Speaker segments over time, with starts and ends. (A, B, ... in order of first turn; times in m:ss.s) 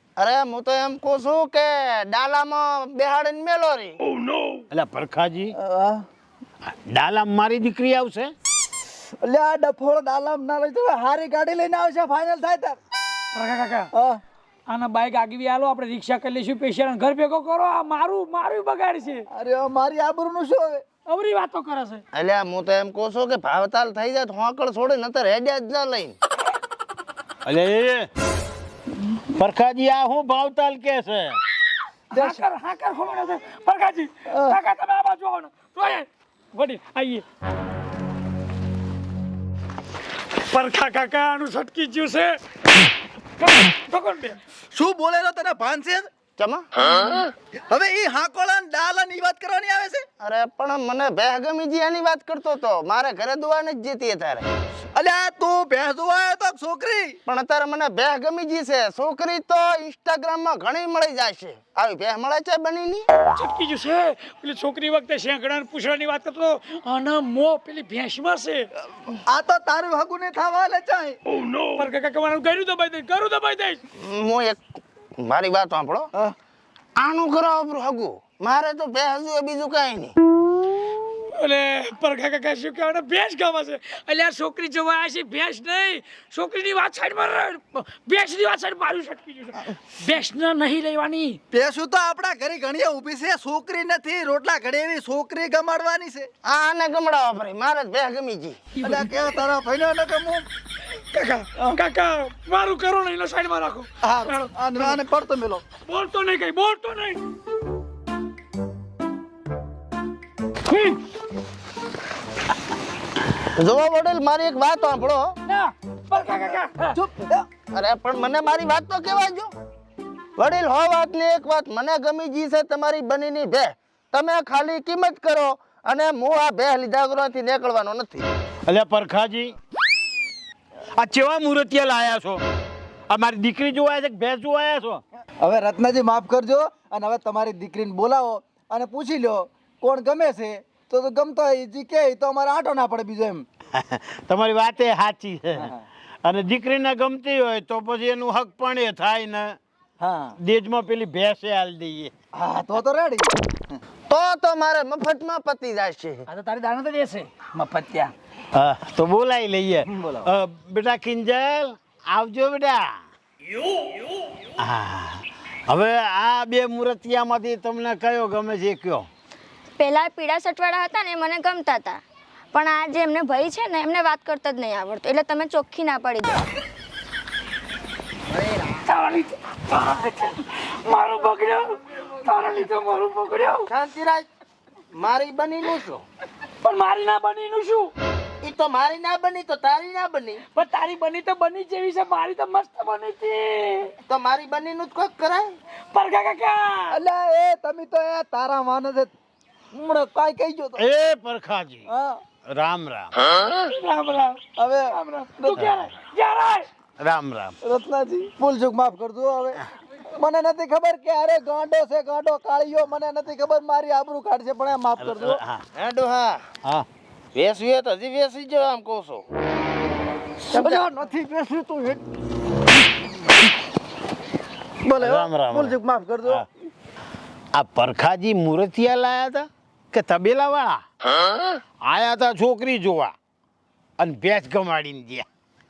0:00.2-0:04.0 A
0:04.7-0:05.6 B
0:05.5-0:06.0 C
0:06.7-0:08.3 B
0:09.2-0:12.8 C
0:13.4-0:13.9 D
0:13.9-0:14.2 C
0:14.7-0:19.3 D
0:19.3-0:20.8 C
0:21.1-0:22.0 D
0:22.1-0:26.2 A
0:27.4-0:28.1 B
0:29.3-0:31.4 B
0:32.1-0:32.4 C
0:32.1-0:37.2 D
0:34.3-0:34.6 C
0:40.5-0:42.4 D
0:43.4-0:44.4 D
0:44.7-0:46.1 C
0:46.4-0:46.7 A
0:47.7-0:50.0 C
0:50.2-0:54.5 A
0:55.0-0:57.2 C
0:57.3-1:03.0 A
1:03.4-1:08.7 D
1:09.3-1:11.2 C
1:11.7-1:13.8 D
1:14.0-1:14.6 A
1:15.2-1:16.1 A
1:17.0-1:20.1 A
1:21.3-1:31.4 D
1:31.5-1:36.3 C
1:36.4-1:38.6 A
1:38.8-1:39.1 D
1:38.8-1:40.5 C
1:41.1-1:44.9 D
1:44.0-1:45.6 C
1:45.9-1:47.2 D
1:50.7-1:51.0 D
1:53.6-1:55.4 A
1:55.5-1:57.0 D
1:56.9-1:57.5 C
1:57.7-1:59.5 A
2:00.4-2:08.3 A
2:08.7-2:09.5 B
2:11.0-2:12.4 B
2:13.1-2:15.0 B
2:15.4-2:23.4 C
2:23.7-2:25.7 B
2:25.6-2:25.8 C
2:26.2-2:29.6 B
2:30.0-2:30.4 C
2:30.4-2:32.1 B
2:32.3-2:33.8 C
2:34.1-2:36.3 A
2:36.3-2:38.1 D
2:38.5-2:42.9 B
2:39.9-2:40.3 C
2:44.6-2:49.1 B
2:49.8-2:52.0 E
2:52.5-2:56.4 E
2:58.8-3:03.7 D
3:03.7-3:04.3 A
3:04.9-3:06.0 A
3:06.6-3:07.9 D
3:08.4-3:10.4 A
3:10.5-3:13.9 D
3:14.1-3:15.6 A
3:15.9-3:17.0 D
3:16.9-3:19.1 C
3:19.7-3:20.8 C
3:20.8-3:21.9 B
3:21.9-3:22.2 C
3:22.5-3:23.2 B
3:23.6-3:24.4 D
3:24.6-3:25.7 C
3:25.1-3:26.7 D
3:25.6-3:25.9 B
3:27.0-3:27.6 B
3:27.6-3:29.6 C
3:30.2-3:35.4 C
3:35.0-3:35.6 B
3:35.8-3:36.4 A
3:37.4-3:39.3 A
3:40.5-3:42.0 C
3:40.5-3:40.8 A
3:44.8-3:46.5 C
3:45.0-3:46.4 B
3:47.5-3:50.8 B
3:51.8-3:53.1 B
3:54.0-3:55.3 B